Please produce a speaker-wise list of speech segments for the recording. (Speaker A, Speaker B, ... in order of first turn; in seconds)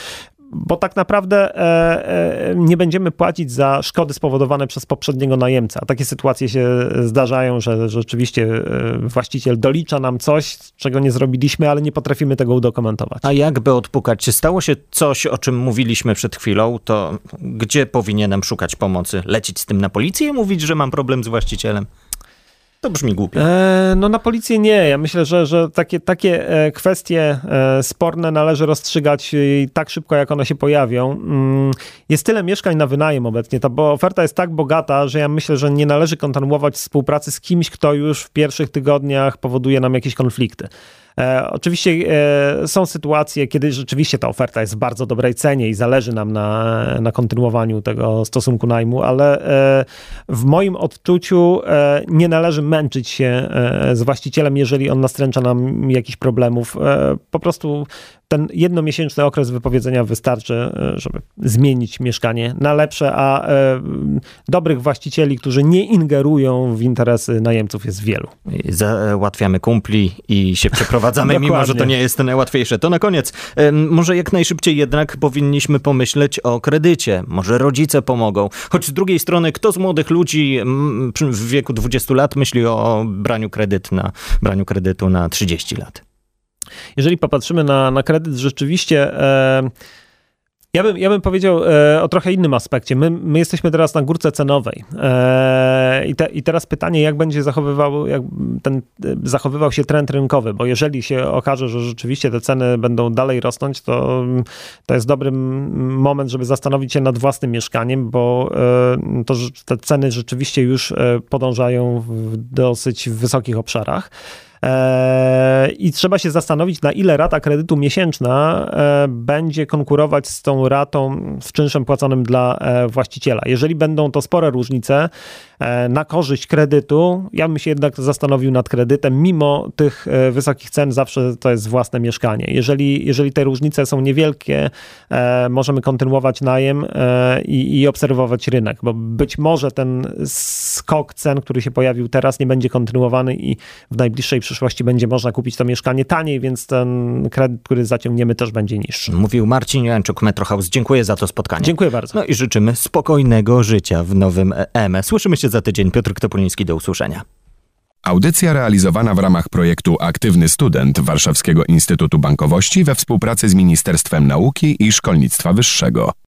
Speaker A: 0.5-13.2, 23.4-68.3, 71.2-71.9, 87.0-89.7, 90.7-114.1, 114.6-149.1, 151.6-152.2
Speaker B: 13.2-21.9, 22.8-23.4, 68.5-86.0, 149.1-157.2
Speaker C: 158.1-166.1